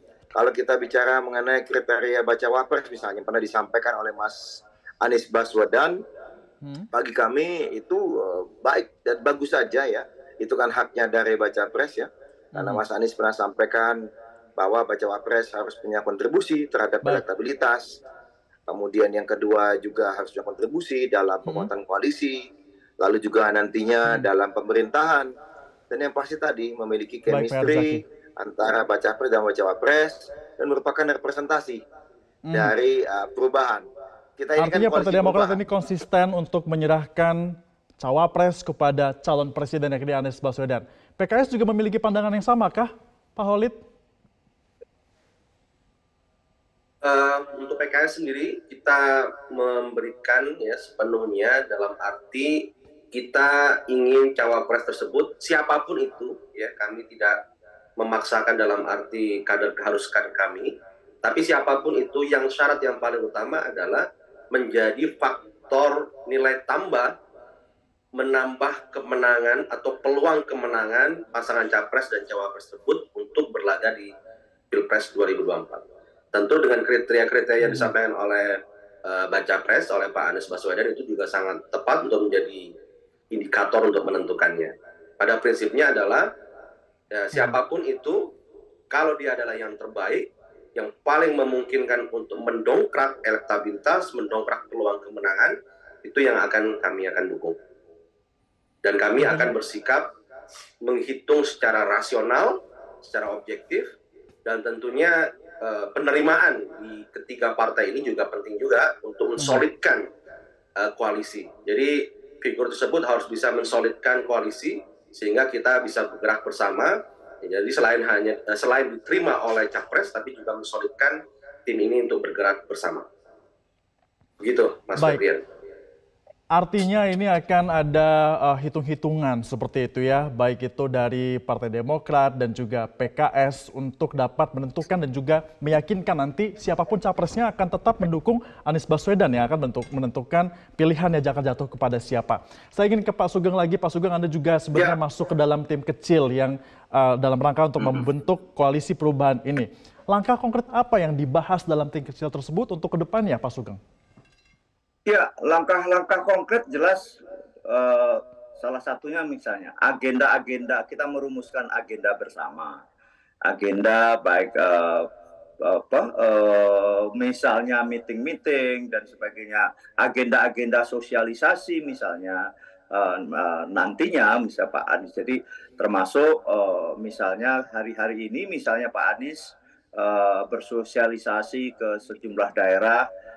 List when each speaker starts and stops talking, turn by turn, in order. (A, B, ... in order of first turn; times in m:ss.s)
0:00.4-0:06.0 A
0:06.9-0:14.0 A
0:12.6-0:12.8 B
0:14.6-0:18.0 A
0:18.7-0:22.5 A
0:23.0-0:25.3 A
0:25.9-0:31.8 A
0:27.3-0:28.0 B
0:32.5-0:32.7 B
0:32.5-0:33.9 A
0:34.4-0:35.6 A
0:34.6-0:43.8 B
0:47.0-0:57.4 C
0:58.0-1:07.1 C
1:08.2-1:14.1 C
1:14.7-1:15.8 C
1:16.3-1:22.7 C
1:17.6-1:17.9 B
1:23.3-1:26.3 C
1:27.1-1:28.3 C
1:28.9-1:37.6 C
1:38.8-1:40.1 C
1:39.2-1:39.5 B
1:40.8-1:43.9 C
1:44.4-1:50.1 C
1:49.4-1:49.6 B
1:50.8-2:03.0 C
2:04.4-2:05.4 C
2:05.0-2:05.2 B
2:06.5-2:33.8 B
2:27.8-2:28.0 D
2:35.1-2:42.8 D
2:43.5-2:45.1 D
2:45.6-3:03.1 D